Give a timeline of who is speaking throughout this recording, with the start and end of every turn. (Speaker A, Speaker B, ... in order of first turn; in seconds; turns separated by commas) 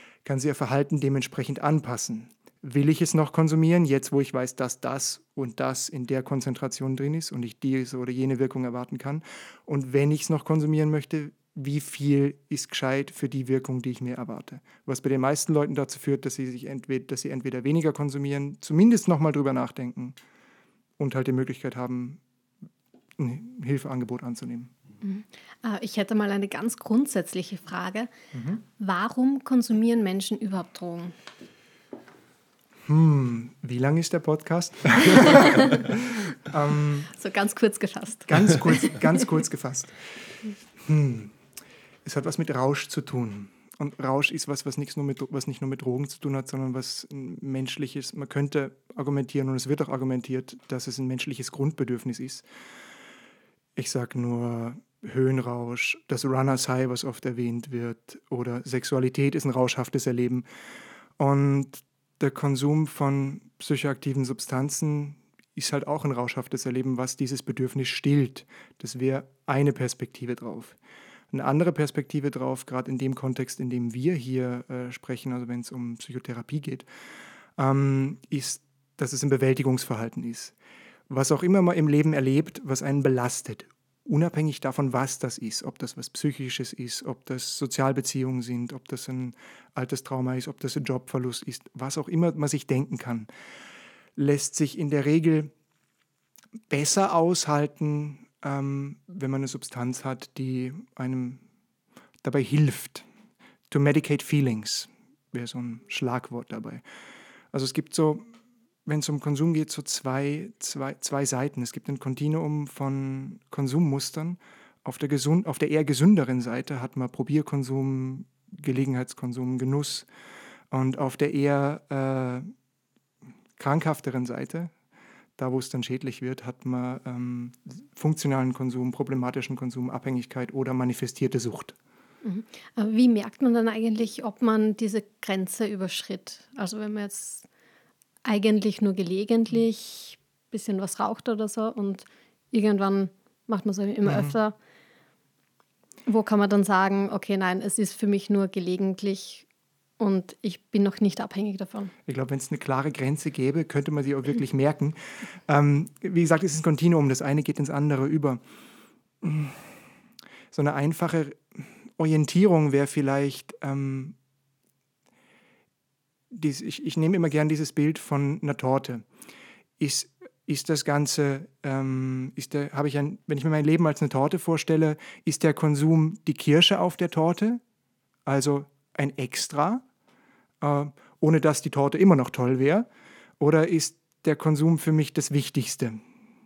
Speaker A: 0.2-20.2, Speaker A: 21.0-22.2, Speaker A: 23.2-24.7, Speaker B: 25.0-31.1, Speaker A: 28.3-28.6, Speaker A: 32.9-37.1, Speaker B: 35.2-35.8, Speaker B: 37.1-39.3, Speaker A: 38.3-40.1, Speaker A: 40.8-41.3, Speaker A: 42.0-52.4, Speaker A: 53.8-60.4, Speaker A: 61.2-70.8, Speaker A: 71.3-76.8, Speaker A: 77.6-80.5, Speaker A: 81.1-93.3, Speaker A: 94.2-95.5, Speaker A: 96.7-101.4, Speaker A: 102.2-103.0, Speaker A: 103.7-106.8, Speaker A: 107.5-108.3, Speaker A: 108.8-120.1, Speaker A: 120.7-122.5, Speaker A: 123.6-124.7, Speaker A: 125.4-131.8, Speaker B: 132.2-137.5, Speaker B: 138.2-144.5, Speaker A: 144.0-144.3, Speaker B: 146.1-149.4, Speaker B: 150.0-151.9, Speaker A: 152.1-158.4, Speaker A: 159.2-159.7, Speaker A: 160.5-164.2, Speaker A: 166.3-169.0, Speaker A: 169.8-177.6, Speaker A: 178.3-179.8, Speaker A: 180.6-182.9, Speaker A: 183.4-186.0